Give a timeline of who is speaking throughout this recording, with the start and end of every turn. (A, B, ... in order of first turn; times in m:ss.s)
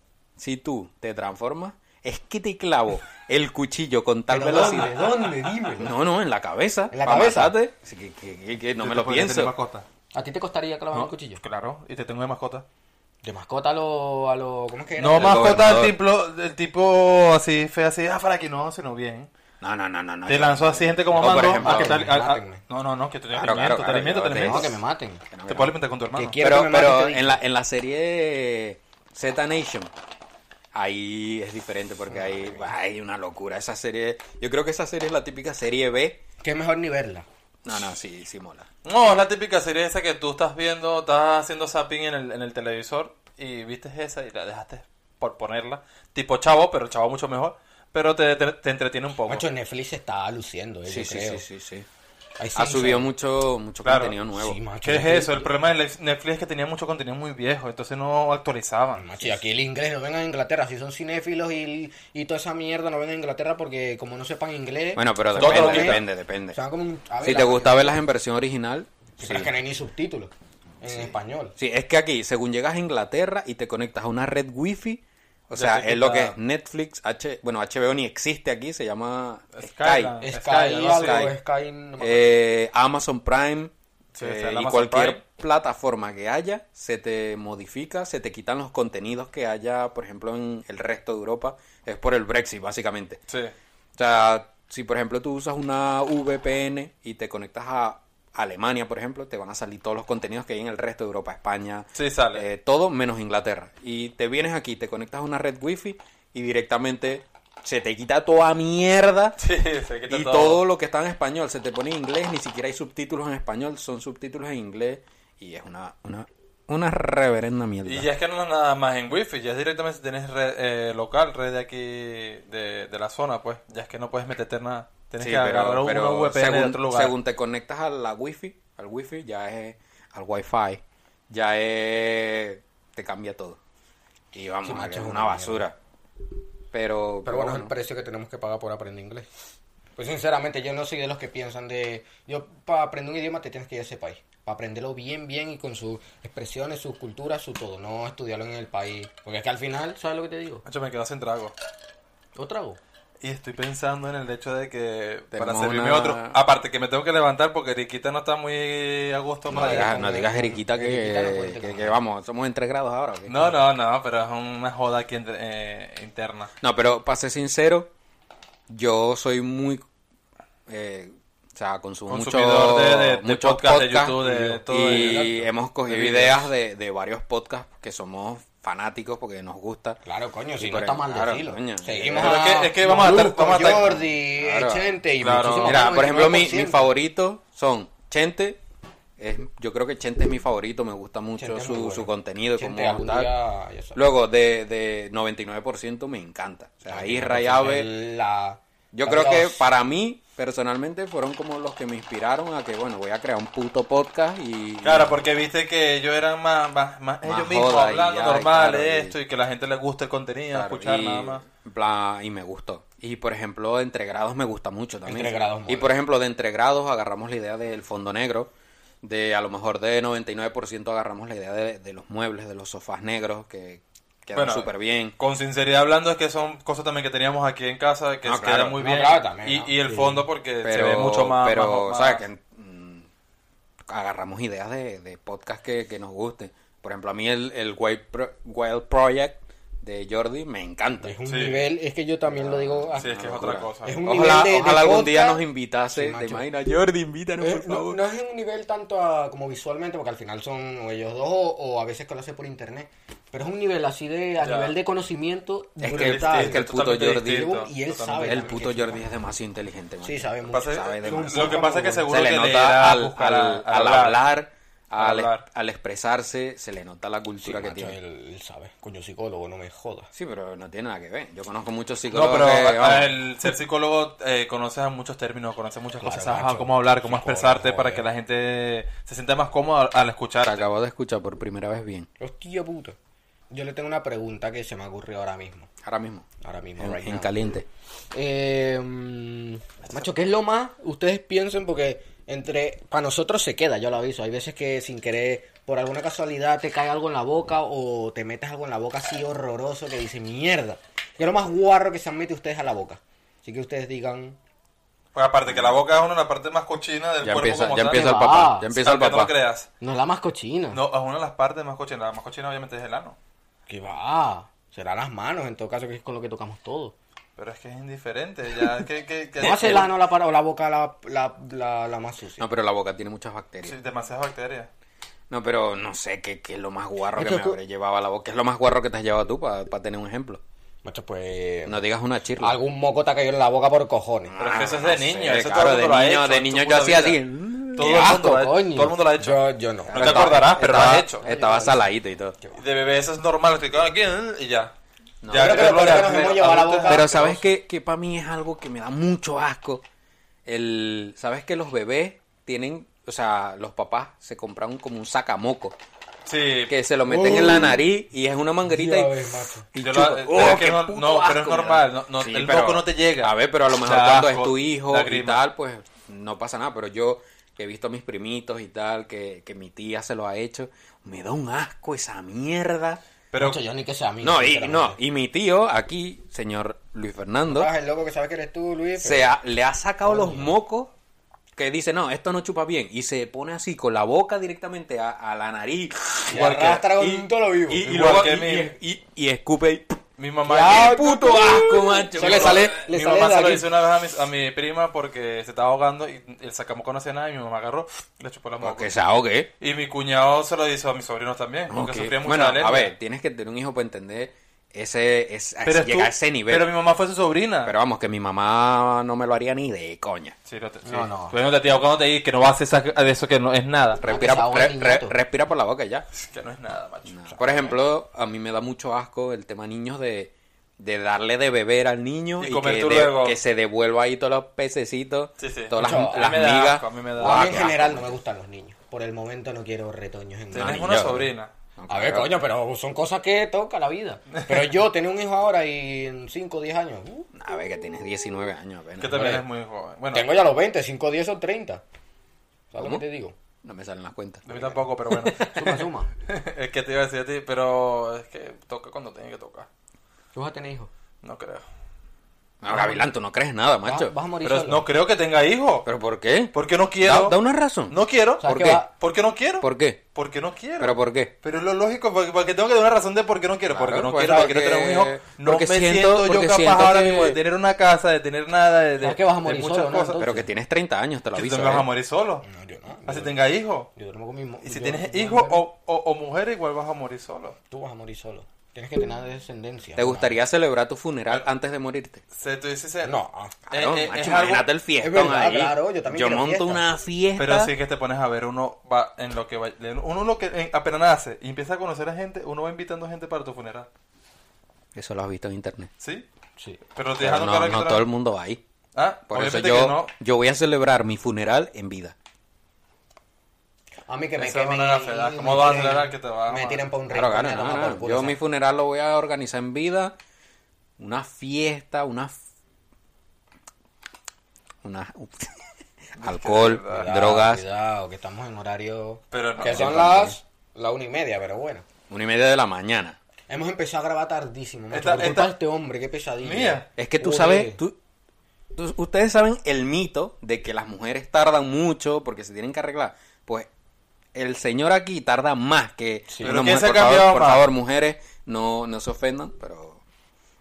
0:00.4-0:09.5 A
0:04.3-0:05.9 B
0:06.9-0:07.5 B
0:08.8-0:09.8 C
0:10.1-0:11.4 B
0:10.9-0:12.6 C
0:13.2-0:15.5 B
0:15.0-0:19.3 C
0:15.2-0:16.0 A
0:19.6-0:22.0 A
0:20.3-0:24.8 C
0:21.1-0:22.6 B
0:23.3-0:24.7 A
0:24.3-0:25.2 B
0:25.3-0:25.7 A
0:25.5-0:26.4 C
0:26.1-0:27.4 B
0:26.4-0:29.9 A
0:30.7-0:36.2 A
0:32.1-0:32.6 B
0:36.4-0:37.3 B
0:37.6-0:38.7 A
0:38.8-0:49.4 C
0:49.3-0:51.4 B
0:50.9-0:51.9 A
0:52.4-0:53.1 B
0:52.5-0:54.6 A
0:53.8-0:54.2 C
0:54.3-0:55.5 B
0:54.8-0:59.2 C
0:59.0-1:06.0 B
1:04.9-1:06.6 A
1:05.4-1:06.0 C
1:06.5-1:08.0 B
1:07.2-1:09.5 A
1:09.2-1:11.5 B
1:10.8-1:20.2 A
1:15.5-1:16.4 C
1:19.5-1:21.3 C
1:20.2-1:22.4 B
1:22.0-1:33.2 A
1:24.1-1:25.2 C
1:34.0-1:49.4 A
1:41.9-1:42.4 C
1:49.4-1:50.6 C
1:50.1-1:58.1 A
1:57.8-2:07.1 C
2:05.2-2:13.6 A
2:14.3-2:15.8 A
2:14.6-2:15.6 B
2:16.7-2:17.7 A
2:17.2-2:19.3 B
2:20.0-2:30.6 B
2:30.6-2:31.5 C
2:32.3-2:32.8 B
2:33.2-2:40.0 C
2:35.3-2:36.4 A
2:39.5-2:43.6 A
2:39.5-2:42.0 B
2:43.3-2:46.5 C
2:46.6-2:47.9 A
2:48.7-2:49.8 A
2:50.7-3:00.0 A
2:52.1-2:56.5 C
2:54.2-2:55.4 B
3:00.0-3:06.9 B
3:00.6-3:02.5 A
3:02.2-3:04.0 C
3:03.8-3:05.0 A
3:05.2-3:05.9 C
3:05.6-3:08.6 A
3:09.2-3:13.3 A
3:11.4-3:14.0 B
3:13.9-3:17.9 A
3:16.9-3:19.7 B
3:18.9-3:25.2 A
3:24.8-3:31.4 C
3:27.2-3:29.2 A
3:30.5-3:38.5 A
3:35.0-3:35.9 B
3:39.0-3:45.1 A
3:44.3-3:52.2 C
3:48.2-3:48.8 A
3:48.8-3:50.2 B
3:50.6-3:53.1 A
3:53.9-4:01.2 A
4:01.0-4:03.1 B
4:01.3-4:01.7 C
4:02.3-4:08.0 A
4:03.0-4:04.0 C
4:03.8-4:06.4 B
4:07.4-4:16.6 B
4:14.4-4:14.7 C
4:15.8-4:17.5 A
4:15.9-4:18.6 C
4:17.2-4:19.0 B
4:18.3-4:28.0 A
4:20.0-4:22.1 B
4:20.5-4:24.2 C
4:25.0-4:25.4 C
4:27.4-4:30.1 B
4:30.1-4:33.1 A
4:32.1-4:40.7 C
4:36.0-4:38.1 B
4:40.4-4:42.1 A
4:42.2-4:43.0 B
4:43.5-4:45.7 B
4:45.8-4:46.2 A
4:46.4-4:47.3 B
4:46.8-4:47.7 A
4:48.1-5:04.4 B
5:05.1-5:09.7 C
5:05.5-5:05.8 A
5:07.2-5:09.3 A
5:07.8-5:08.7 B
5:09.8-5:10.8 B
5:10.7-5:13.2 C
5:13.7-5:16.9 B
5:17.4-5:19.9 C
5:19.4-5:22.4 B
5:19.5-5:19.8 A
5:22.4-5:23.8 A
5:23.6-5:24.7 C
5:25.3-5:30.4 A
5:27.1-5:27.6 B
5:30.8-5:31.8 B
5:31.6-5:32.6 A
5:32.4-5:34.3 B
5:34.3-5:38.4 A
5:34.4-5:37.2 C
5:37.7-5:39.4 C
5:37.8-5:41.9 B
5:39.9-5:42.4 A
5:39.9-5:41.2 C
5:42.5-5:44.7 C
5:45.2-5:46.1 A
5:45.3-5:47.3 C
5:45.3-5:47.4 B
5:46.9-5:49.8 A
5:50.4-5:55.8 A
5:56.2-5:56.7 C
5:56.7-6:13.0 A
5:57.1-5:57.8 B
5:57.3-5:57.6 C
5:58.6-5:59.6 B
5:59.8-6:05.4 C
6:13.3-6:13.6 C
6:13.4-6:15.0 B
6:14.2-6:17.7 A
6:17.5-6:19.4 B
6:19.0-6:20.9 A
6:20.0-6:20.5 B
6:21.6-6:30.0 A
6:26.3-6:27.8 B
6:26.3-6:26.8 C
6:27.8-6:28.7 C
6:30.2-6:31.5 C
6:30.5-6:33.6 B
6:30.6-6:32.7 A
6:32.1-6:38.9 C
6:38.6-6:39.5 A
6:39.6-6:42.9 C
6:41.7-6:46.7 A
6:45.6-6:47.7 C
6:47.6-6:50.4 A
6:50.5-6:54.0 C
6:50.8-6:51.4 B
6:54.0-6:56.0 A
6:54.0-6:55.2 B
6:56.1-6:57.8 C
6:57.1-7:08.2 A
7:02.4-7:03.4 C
7:05.4-7:07.7 C
7:05.8-7:06.3 B
7:07.2-7:11.2 B
7:10.5-7:11.5 C
7:10.5-7:12.3 A
7:11.9-7:17.3 B
7:14.5-7:14.7 C
7:17.3-7:19.2 A
7:19.0-7:20.3 C
7:19.1-7:19.4 B
7:20.1-7:21.8 B
7:22.7-7:23.3 B
7:23.6-7:24.7 A
7:24.4-7:25.5 C
7:25.2-7:25.8 A
7:25.4-7:26.1 B
7:26.3-7:29.7 C
7:30.3-7:30.9 B
7:31.2-7:31.6 C
7:32.6-7:34.1 A
7:32.7-7:33.0 B
7:33.8-7:34.8 B
7:34.4-7:35.8 C
7:35.8-7:38.8 A
7:36.5-7:37.4 C
7:37.9-7:50.2 C
7:38.4-7:38.9 B
7:39.6-7:40.0 A
7:40.8-7:41.3 A
7:43.7-7:47.4 A
7:49.0-7:50.4 B
7:50.2-7:51.9 A
7:51.3-7:52.4 C
7:52.4-7:53.3 B
7:53.0-7:53.9 C
7:54.0-7:55.6 B
7:54.6-7:57.6 C
7:57.7-8:00.4 B
8:00.0-8:02.2 A
8:02.3-8:03.2 C
8:03.0-8:03.5 B
8:03.7-8:07.7 A
8:03.7-8:04.7 C
8:05.0-8:06.8 B
8:07.4-8:13.9 C
8:14.9-8:15.9 A
8:16.0-8:16.2 C
8:16.9-8:18.0 C
8:17.2-8:18.6 A
8:18.9-8:20.1 C
8:19.3-8:22.1 A
8:24.1-8:28.4 B
8:24.4-8:26.8 C
8:27.1-8:30.1 A
8:31.0-8:32.4 A
8:34.8-8:35.6 A
8:36.2-8:37.6 A
8:36.2-8:37.1 C
8:36.8-8:41.8 B
8:39.3-8:39.9 C
8:39.6-8:40.4 A
8:42.1-8:43.2 A
8:43.5-8:47.8 B
8:44.9-8:45.5 C
8:46.4-8:46.9 C
8:47.0-8:48.0 A
8:48.7-8:53.7 A
8:54.3-9:00.0 A
8:56.3-8:56.6 B
8:56.4-8:57.7 C